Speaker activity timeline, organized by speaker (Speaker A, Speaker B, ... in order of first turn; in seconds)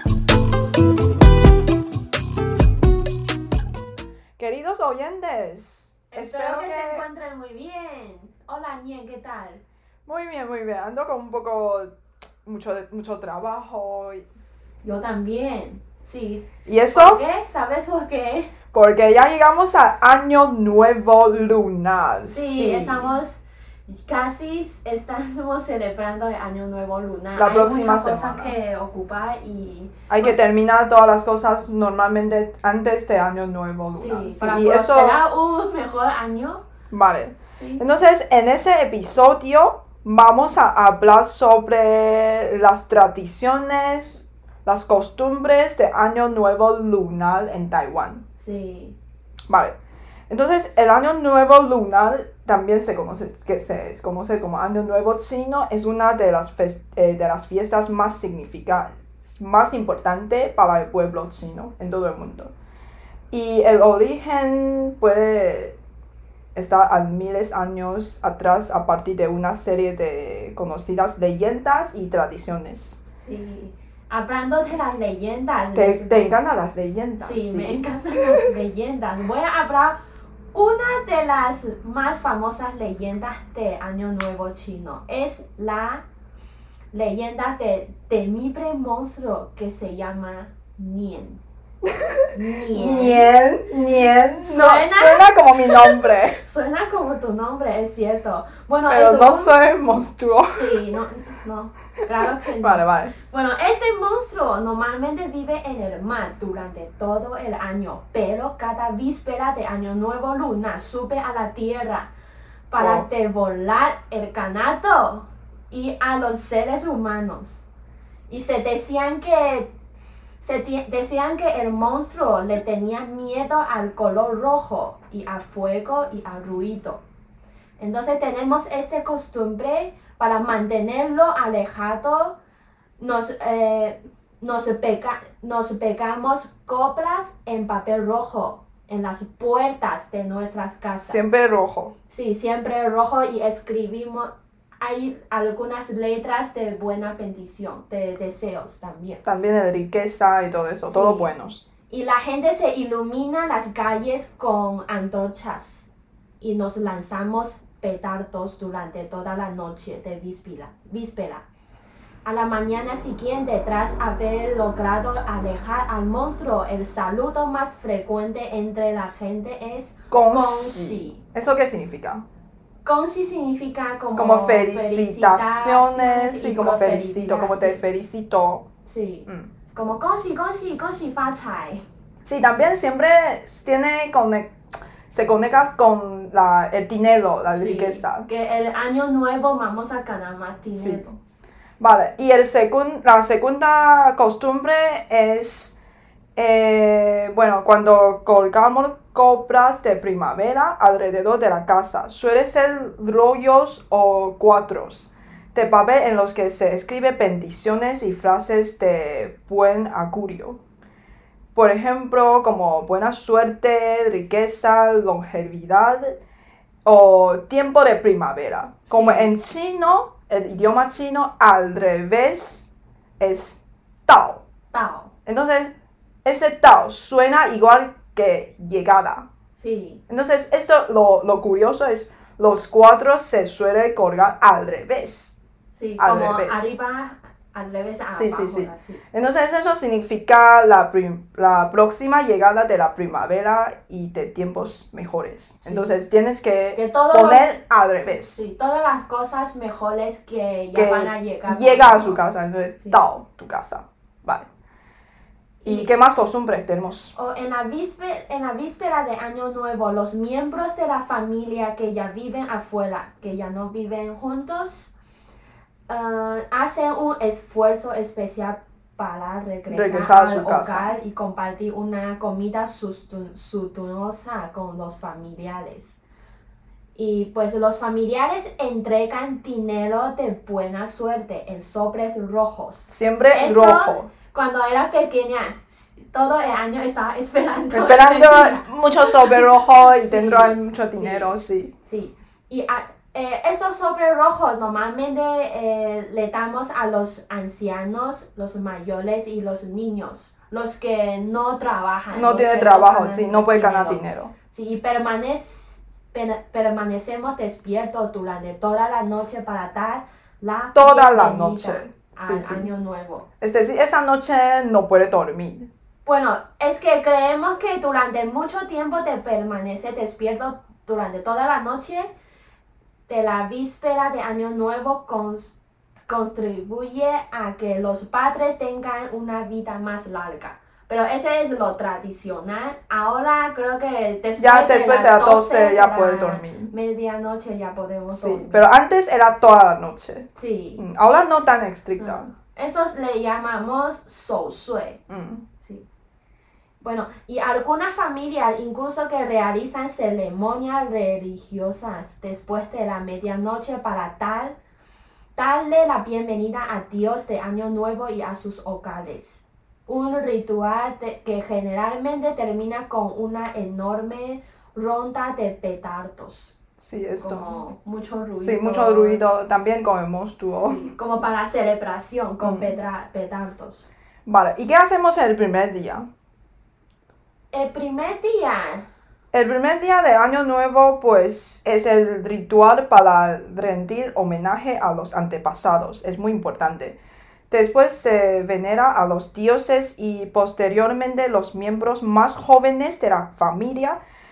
Speaker A: 4.4-7.0, 10.1-14.2, 16.6-17.2, 18.7-23.2, 27.4-28.5, 30.1-35.2, 36.9-48.2, 49.5-49.8, 50.3-62.5, 63.3-65.8, 66.5-73.0, 75.7-78.4, 91.8-96.4, 98.9-100.8, 102.4-103.1, 112.8-113.0, 141.1-141.9, 149.2-151.6, 170.1-172.2, 174.1-178.7, 182.2-184.6, 185.1-188.3, 190.8-191.0, 191.8-195.8, 196.3-210.6, 211.5-216.2, 216.8-224.4, 225.2-229.3, 230.1-235.3, 236.0-236.7, 238.1-248.4, 250.7-254.5, 255.6-257.1, 269.7-270.9, 282.9-284.1, 287.7-291.7, 302.1-304.3, 310.7-312.7, 313.4-315.7, 334.4-336.7, 338.1-342.3, 345.1-345.4, 366.8-367.5, 368.4-370.9, 372.4-372.7, 374.2-376.1, 379.3-387.0, 387.5-394.0
Speaker B: 6.1-9.6, 14.8-18.5, 22.3-30.4, 33.9-36.6, 37.6-37.8, 48.4-49.0, 73.2-76.3, 77.2-80.0, 80.5-86.0, 86.9-91.4, 92.3-93.3, 94.3-99.5, 100.5-112.1, 112.7-117.7, 118.3-119.7, 120.4-127.0, 127.8-132.4, 133.0-141.2, 142.1-149.2, 150.9-151.3, 151.9-155.9, 156.4-161.4, 162.2-171.2, 172.8-177.8, 178.8-181.8, 187.5-191.2, 218.9-219.3, 224.7-225.1, 229.5-230.0, 235.7-239.0, 245.6-246.0, 246.7-247.6, 248.3-252.2, 255.6-255.9, 257.1-264.9, 265.9-276.0, 276.9-313.3, 316.0-322.1, 323.1-325.6, 326.1-338.7, 340.4-340.9, 342.0-345.0, 346.8-354.6, 355.4-366.6, 367.2-369.3, 370.6-373.9, 377.5-378.9